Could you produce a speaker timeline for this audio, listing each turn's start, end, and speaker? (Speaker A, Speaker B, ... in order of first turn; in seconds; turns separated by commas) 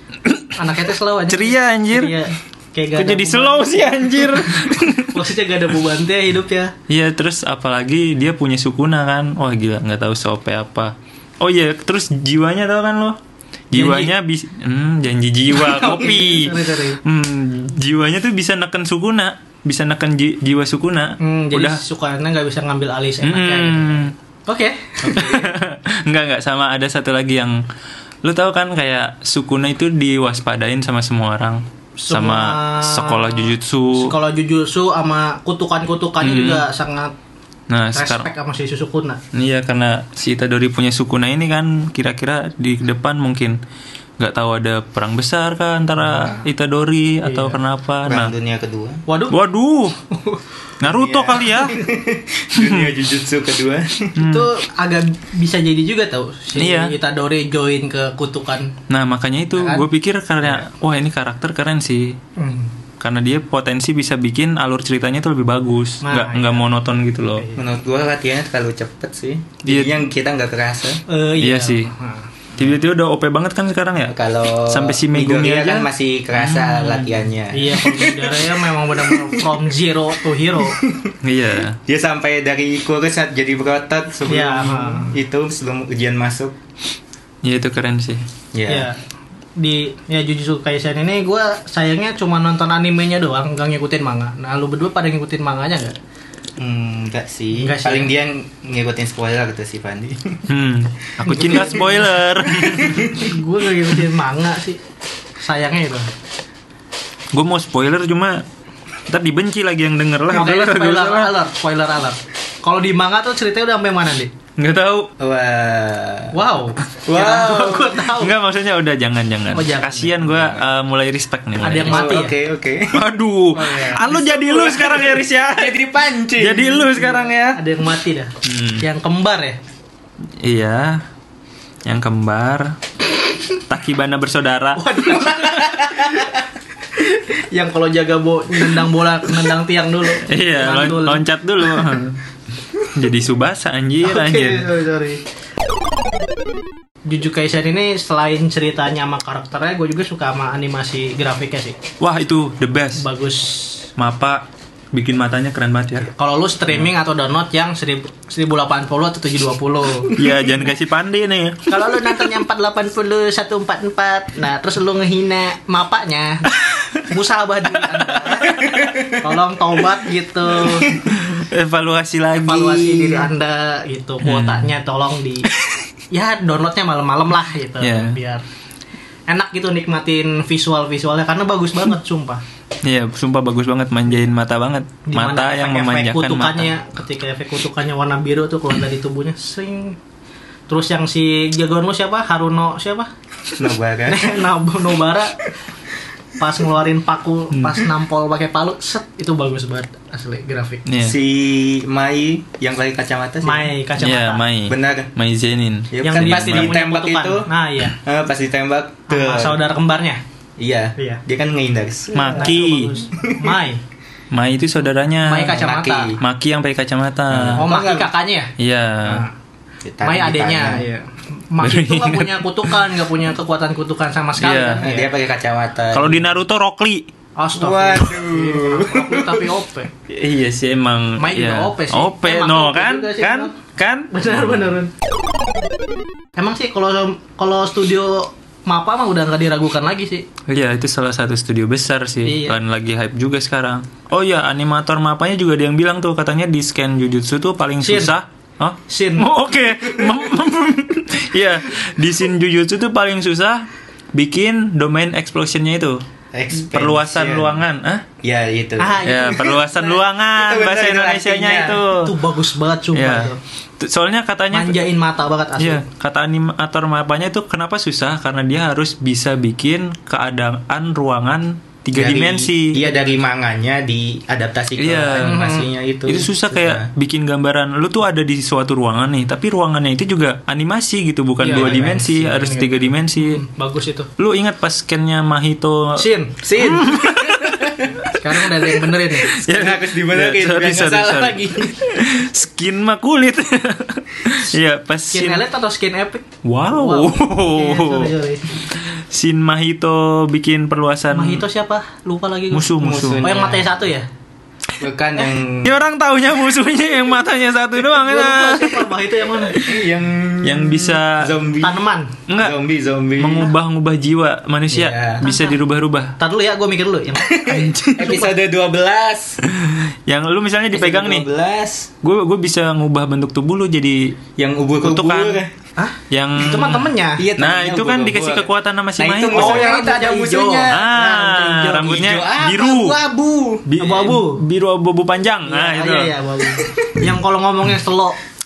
Speaker A: 0.2-0.6, Speaker B: 0.6-6.7, Speaker A: 1.3-2.1, Speaker A: 2.9-5.2, Speaker A: 6.9-13.2, Speaker A: 13.7-21.8, Speaker B: 13.7-14.1, Speaker B: 15.5-17.0, Speaker B: 21.2-25.6, Speaker A: 23.2-24.1, Speaker A: 25.0-27.6, Speaker A: 28.2-34.1, Speaker B: 32.0-37.1, Speaker A: 36.2-36.6, Speaker A: 37.7-38.3, Speaker B: 37.9-39.2, Speaker A: 39.3-43.6, Speaker A: 44.2-48.3, Speaker B: 47.2-47.6, Speaker C: 48.0-49.0, Speaker B: 49.1-49.4, Speaker A: 49.3-50.0, Speaker B: 50.1-50.4, Speaker A: 50.8-51.8, Speaker C: 50.8-54.1, Speaker A: 52.5-52.9, Speaker A: 54.2-54.5, Speaker B: 54.2-58.7, Speaker A: 56.5-56.9, Speaker A: 58.9-62.2, Speaker B: 59.6-59.8, Speaker B: 62.4-62.7, Speaker A: 63.0-67.4, Speaker B: 66.0-66.6, Speaker B: 67.4-67.6, Speaker C: 67.5-71.0, Speaker A: 69.6-70.0, Speaker B: 71.1-72.3, Speaker A: 71.4-71.9, Speaker A: 72.6-74.2, Speaker C: 74.1-79.4, Speaker A: 74.7-75.9, Speaker A: 76.4-77.1, Speaker B: 77.5-80.8, Speaker C: 80.7-81.1, Speaker A: 81.2-81.8, Speaker C: 81.8-86.5, Speaker B: 84.3-85.1, Speaker A: 87.4-88.2, Speaker C: 88.5-88.9, Speaker B: 88.7-89.0, Speaker B: 89.6-96.0, Speaker C: 96.6-100.4, Speaker B: 97.5-98.1, Speaker A: 100.5-103.2, Speaker B: 101.2-102.1, Speaker C: 102.6-103.1, Speaker B: 103.0-104.8, Speaker B: 105.4-106.1, Speaker A: 107.3-108.4, Speaker A: 109.1-111.3, Speaker B: 110.3-114.3, Speaker A: 114.6-115.1, Speaker C: 115.2-116.3, Speaker B: 116.3-118.3, Speaker C: 117.0-118.0, Speaker A: 118.1-122.2, Speaker B: 119.5-120.1, Speaker C: 120.1-120.7, Speaker B: 121.6-122.3, Speaker C: 121.8-122.9, Speaker A: 122.9-125.8, Speaker B: 123.5-125.0, Speaker C: 125.3-126.8, Speaker A: 126.4-127.6, Speaker B: 126.8-129.6, Speaker A: 128.4-128.8, Speaker A: 130.4-131.0, Speaker A: 131.8-132.8, Speaker A: 133.5-135.4, Speaker B: 134.8-136.3, Speaker C: 135.4-136.3, Speaker B: 136.9-141.2, Speaker A: 140.2-142.2, Speaker A: 142.8-144.7, Speaker B: 144.0-145.2, Speaker B: 147.1-151.8, Speaker A: 152.0-153.0, Speaker B: 153.0-153.9, Speaker A: 154.0-156.1, Speaker B: 156.1-160.2, Speaker A: 160.1-162.1, Speaker B: 161.7-171.0, Speaker A: 168.2-168.8, Speaker C: 168.5-169.2, Speaker A: 170.7-173.1, Speaker B: 172.4-175.5, Speaker A: 174.2-174.7, Speaker B: 176.1-178.4, Speaker A: 177.8-178.2, Speaker B: 179.3-182.4, Speaker A: 182.8-186.7, Speaker B: 185.1-190.0, Speaker C: 185.6-186.1, Speaker B: 190.7-193.1, Speaker C: 193.6-194.4, Speaker B: 194.1-195.4, Speaker B: 196.4-200.8, Speaker A: 197.5-197.9, Speaker A: 200.8-201.2, Speaker C: 201.0-203.7, Speaker B: 203.4-204.4, Speaker A: 204.0-206.8, Speaker C: 204.7-205.1, Speaker C: 205.9-209.6, Speaker B: 206.0-208.0, Speaker B: 209.1-210.2, Speaker C: 210.6-213.6, Speaker B: 211.0-211.2, Speaker A: 212.1-212.9, Speaker B: 212.2-213.8, Speaker A: 214.3-215.6, Speaker B: 215.2-216.1, Speaker C: 215.5-216.2, Speaker A: 216.2-217.7, Speaker C: 217.3-218.1, Speaker B: 217.6-218.5, Speaker A: 218.6-219.2, Speaker B: 219.0-219.3, Speaker C: 219.8-220.8, Speaker B: 220.0-225.1, Speaker A: 221.6-222.9, Speaker A: 224.4-224.8, Speaker C: 224.8-226.3, Speaker A: 225.9-227.1, Speaker B: 227.4-229.9, Speaker C: 227.5-229.5, Speaker A: 230.1-234.7, Speaker B: 231.2-233.5, Speaker B: 234.1-234.9, Speaker B: 236.4-240.2, Speaker A: 240.5-256.0, Speaker B: 242.2-242.6, Speaker B: 247.8-248.1, Speaker B: 248.9-249.3, Speaker C: 256.3-257.6, Speaker A: 256.6-258.0, Speaker C: 258.2-259.8, Speaker B: 258.8-259.6, Speaker A: 259.0-262.1, Speaker C: 260.3-261.8, Speaker B: 261.9-263.4, Speaker A: 262.9-264.8, Speaker B: 264.5-265.8, Speaker A: 265.6-272.8, Speaker C: 271.9-276.9, Speaker A: 274.8-275.4, Speaker B: 275.2-275.7, Speaker A: 276.1-283.4, Speaker B: 281.4-284.1, Speaker C: 281.4-282.0, Speaker A: 284.2-286.0, Speaker B: 285.9-286.4, Speaker C: 286.4-288.0, Speaker A: 286.6-287.8, Speaker B: 288.1-289.3, Speaker A: 289.2-295.4, Speaker C: 289.3-291.8, Speaker B: 295.1-298.6, Speaker A: 296.4-298.1, Speaker A: 298.7-301.4, Speaker B: 301.1-304.1, Speaker A: 302.5-303.2, Speaker C: 302.7-303.7, Speaker C: 304.8-305.8, Speaker A: 305.6-308.9, Speaker B: 307.9-309.6, Speaker A: 309.5-309.9, Speaker C: 309.6-311.8, Speaker A: 310.4-311.3, Speaker B: 311.6-312.1, Speaker A: 312.3-312.6, Speaker C: 312.4-313.5, Speaker A: 313.2-316.1, Speaker C: 314.7-315.2, Speaker B: 315.2-315.6, Speaker B: 316.2-318.3, Speaker C: 317.2-319.4, Speaker A: 317.4-318.2, Speaker A: 319.4-321.2, Speaker C: 320.7-321.9, Speaker A: 322.0-324.1, Speaker C: 324.4-325.5, Speaker A: 324.8-325.4, Speaker B: 325.8-327.2, Speaker A: 326.1-329.7, Speaker C: 327.2-333.6, Speaker B: 329.3-331.3, Speaker A: 330.7-333.0, Speaker A: 333.7-336.1, Speaker B: 333.8-334.4, Speaker B: 335.4-338.2